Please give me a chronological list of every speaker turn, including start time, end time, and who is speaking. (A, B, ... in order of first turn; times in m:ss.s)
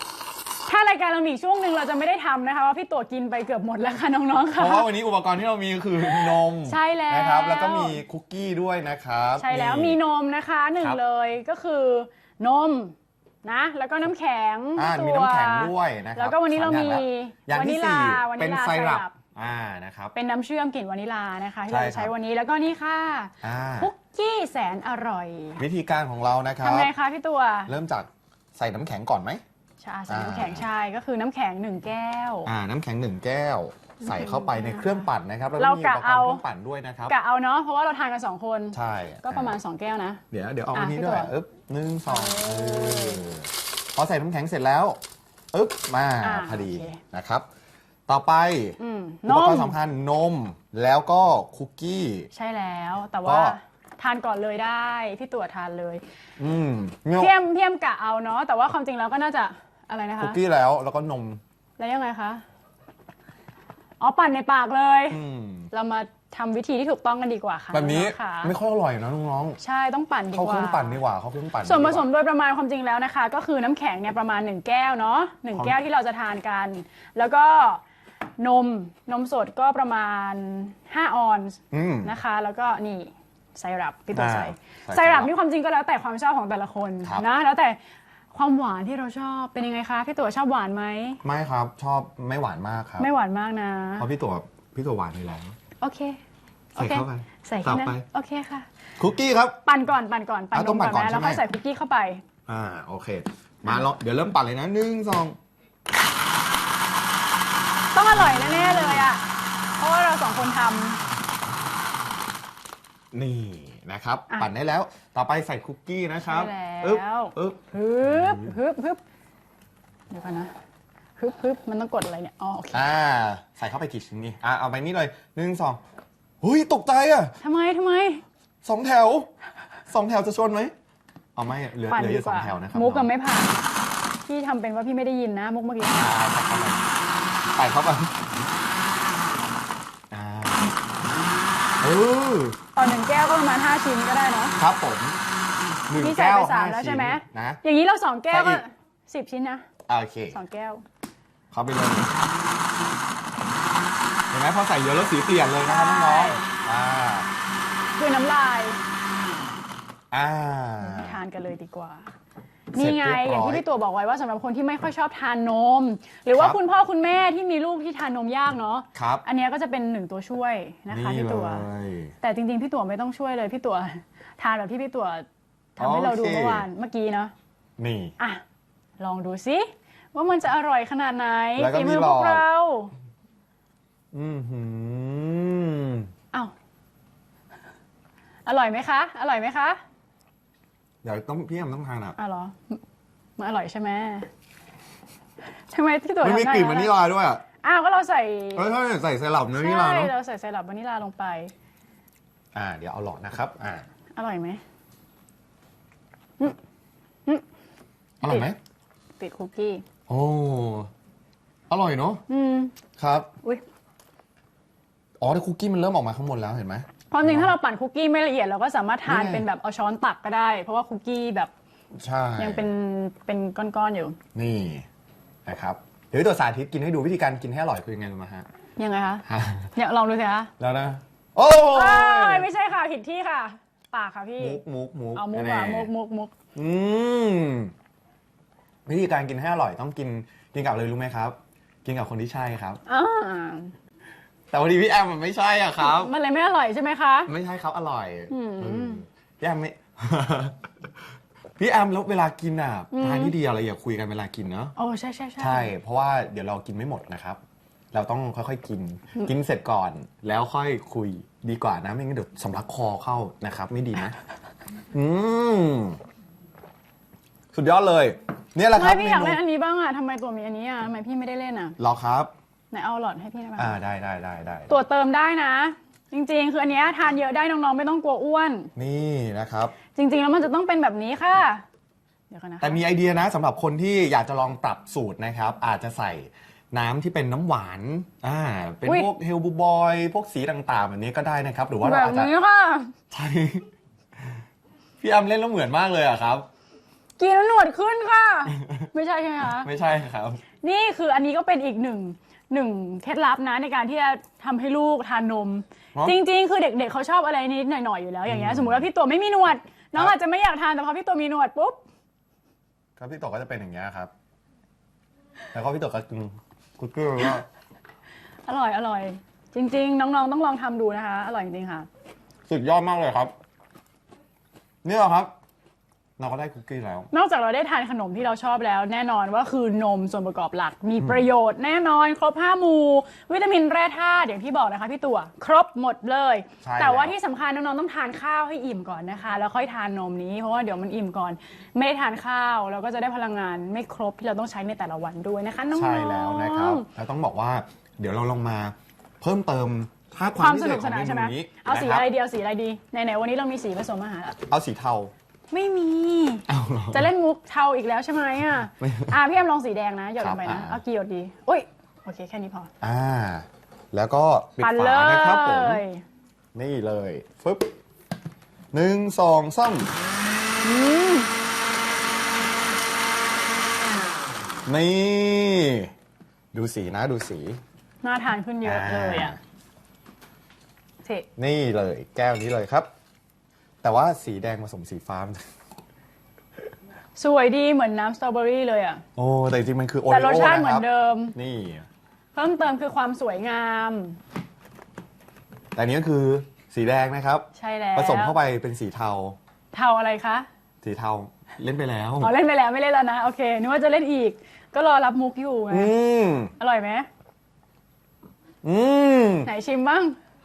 0:00.7-0:04.9 A
0:04.5-0:10.0 B
0:06.0-0:08.0 A
0:09.4-0:19.2 A
0:14.8-0:20.1 B
0:20.1-0:25.6 A
0:21.7-0:22.1 B
0:23.4-0:23.9 B
0:25.6-0:26.9 B
0:26.6-0:27.7 A
0:27.7-0:29.4 B
0:29.8-0:32.5 A
0:30.1-0:30.7 B
0:32.4-0:37.1 B
0:34.0-0:35.1 A
0:35.6-0:36.4 A
0:37.1-0:40.2 A
0:38.7-0:39.6 B
0:40.3-0:45.0 B
0:40.7-0:41.3 A
0:42.1-0:43.2 A
0:45.5-0:47.5 B
0:46.2-0:47.0 A
0:48.1-0:52.3 B
0:48.8-0:49.8 A
0:52.3-0:56.0 A
0:53.2-0:53.6 B
0:56.4-0:57.3 B
0:57.2-1:00.4 A
1:00.2-1:01.4 B
1:01.8-1:02.4 A
1:04.0-1:08.5 A
1:05.1-1:05.7 B
1:07.7-1:09.6 B
1:09.6-1:11.0 A
1:10.3-1:12.0 B
1:11.6-1:17.8 A
1:18.4-1:27.8 A
1:21.7-1:22.1 B
1:24.1-1:25.3 B
1:28.3-1:31.2 A
1:31.2-1:33.1 B
1:33.0-1:34.1 A
1:34.0-1:35.6 B
1:35.8-1:36.2 A
1:36.8-1:38.0 B
1:36.8-1:38.7 A
1:39.0-1:39.6 B
1:39.6-1:42.2 A
1:40.5-1:41.4 B
1:42.5-1:45.4 B
1:48.0-1:49.2 A
1:49.8-1:51.0 A
1:53.1-1:58.6 B
1:56.2-1:59.0 A
2:00.1-2:00.5 A
2:01.2-2:02.9 A
2:02.7-2:05.8 B
2:06.4-2:07.4 B
2:07.4-2:08.2 A
2:08.6-2:09.3 B
2:09.9-2:10.7 B
2:11.4-2:13.1 B
2:11.9-2:13.5 A
2:14.3-2:16.1 A
2:16.0-2:16.8 B
2:17.6-2:18.2 B
2:20.1-2:20.7 B
2:21.8-2:22.6 B
2:22.8-2:24.6 A
2:24.6-2:25.2 B
2:25.9-2:27.6 B
2:26.0-2:29.7 A
2:28.3-2:28.6 B
2:29.9-2:30.4 B
2:30.3-2:30.8 A
2:31.5-2:32.2 B
2:34.3-2:37.3 B
2:35.6-2:36.4 A
2:38.0-2:38.8 A
2:40.1-2:41.2 B
2:40.8-2:42.1 A
2:42.7-2:51.7 A
2:42.8-2:43.6 B
2:46.3-2:46.6 B
2:49.0-2:49.2 B
2:50.9-2:52.1 B
2:52.2-2:55.3 A
2:55.8-2:57.3 A
2:55.8-2:56.7 B
2:57.8-2:58.1 B
2:59.0-3:02.9 A
3:01.6-3:02.5 B
3:04.1-3:06.1 B
3:08.5-3:09.8 A
3:11.0-3:12.2 B
3:12.2-3:12.8 A
3:13.4-3:14.3 A
3:15.7-3:16.9 A
3:16.2-3:17.4 B
3:17.6-3:18.7 A
3:18.6-3:20.1 B
3:19.5-3:21.5 A
3:22.6-3:23.9 B
3:24.2-3:24.6 A
3:28.2-3:28.6 B
3:28.2-3:28.5 A
3:29.2-3:29.8 A
3:30.1-3:30.9 B
3:31.7-3:32.2 B
3:32.3-3:32.7 A
3:33.0-3:33.3 B
3:35.2-3:37.5 B
3:37.1-3:41.5 A
3:39.1-3:39.5 B
3:42.0-3:42.7 B
3:42.4-3:44.2 A
3:44.4-3:44.8 B
3:45.5-3:48.5 B
3:48.8-3:49.2 A
3:49.3-3:49.7 B
3:49.8-3:50.5 A
3:50.6-3:52.5 B
3:51.7-3:54.6 A
3:54.4-3:55.9 B
3:55.2-3:56.3 A
3:56.6-3:57.7 B
3:58.9-4:02.8 B
4:02.9-4:03.7 A
4:04.5-4:06.1 B
4:05.8-4:07.3 A
4:07.3-4:10.7 B
4:08.3-4:09.0 A
4:11.6-4:14.7 B
4:12.9-4:13.3 A
4:14.8-4:15.7 A
4:15.4-4:17.4 B
4:17.9-4:24.2 B
4:24.9-4:26.0 B
4:27.5-4:29.4 B
4:28.8-4:31.8 A
4:31.8-4:32.3 B
4:32.7-4:33.8 A
4:33.6-4:34.7 B
4:34.7-4:38.7 A
4:38.8-4:39.8 B
4:39.9-4:41.6 A
4:42.3-4:42.8 A
4:42.6-4:52.3 B
4:51.8-4:52.9 A
4:53.1-4:53.7 B
4:55.0-4:56.5 B
4:57.2-4:59.7 A
4:58.6-4:58.9 B
4:59.4-5:00.4 B
5:00.6-5:11.8 A
5:08.3-5:08.9 B
5:13.0-5:14.1 B
5:15.5-5:17.5 B
5:18.5-5:21.9 A
5:22.5-5:23.3 B
5:24.8-5:25.3 B
5:26.2-5:27.1 B
5:27.1-5:46.9 A
5:36.6-5:37.2 B
5:45.7-5:52.1 B
5:50.4-5:54.4 A
5:54.5-5:55.1 B
5:55.5-6:02.7 A
5:56.5-5:57.1 B
5:58.8-5:59.2 B
6:00.2-6:00.8 B
6:02.8-6:05.8 B
6:04.6-6:06.0 A
6:06.5-6:07.7 B
6:08.7-6:09.9 B
6:10.6-6:11.3 A
6:14.7-6:15.9 B
6:16.5-6:17.6 B
6:18.0-6:19.4 A
6:18.6-6:19.4 B
6:21.4-6:22.9 B
6:23.8-6:25.4 B
6:27.2-6:29.0 A
6:29.2-6:31.9 B
6:30.1-6:31.4 A
6:32.4-6:34.2 A
6:35.8-6:39.4 B
6:37.6-6:38.4 A
6:39.7-6:40.5 A
6:40.8-6:42.3 B
6:42.2-6:45.9 A
6:45.7-6:46.5 B
6:46.6-6:47.1 A
6:48.6-6:49.5 B
6:49.4-6:50.2 A